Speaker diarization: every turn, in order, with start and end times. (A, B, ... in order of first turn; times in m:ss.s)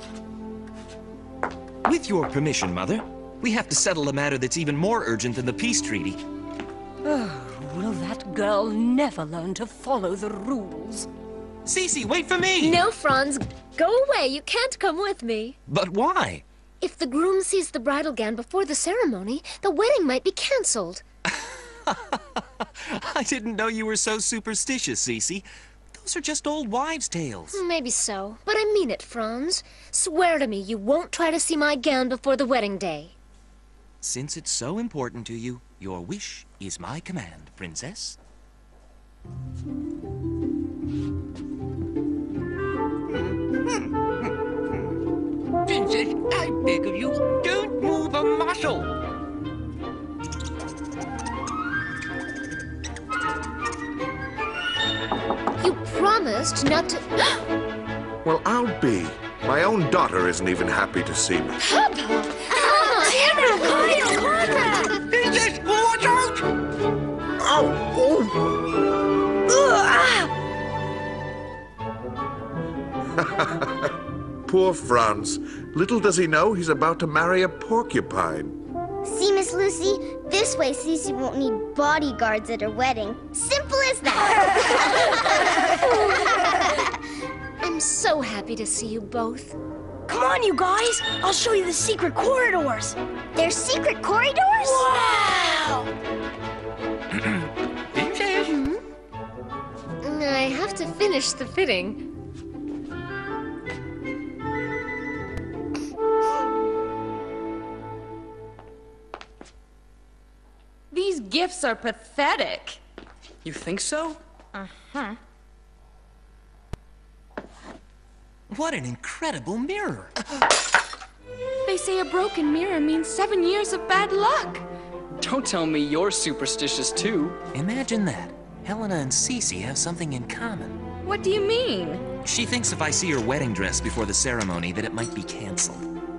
0:01.8-0:06.2 A
0:07.0-0:11.1 B
0:11.6-0:12.8 A
0:12.6-0:15.6 C
0:15.7-0:16.4 A
0:16.8-0:21.0 C
0:22.8-0:27.6 A
0:27.5-0:33.1 C
0:34.0-0:38.2 A
0:45.7-0:48.9 A
0:55.6-0:57.1 C
0:58.2-1:01.6 D
1:01.6-1:04.9 C
1:02.7-1:04.9 E
1:07.4-1:08.3 D
1:13.2-1:13.7 D
1:14.5-1:18.6 D
1:19.0-1:25.6 F
1:26.4-1:26.8 F
1:27.6-1:29.6 C
1:30.1-1:33.0 E
1:33.3-1:34.9 F
1:34.6-1:35.9 E
1:37.2-1:38.5 A
1:38.4-1:38.8 C
1:40.0-1:42.1 C
1:50.9-1:52.8 G
1:53.4-1:54.2 H
1:54.5-1:55.2 G
1:58.5-2:00.1 A
2:01.6-2:04.6 G
2:05.2-2:07.4 H
2:07.5-2:10.8 A
2:11.0-2:12.0 G
2:12.2-2:15.8 A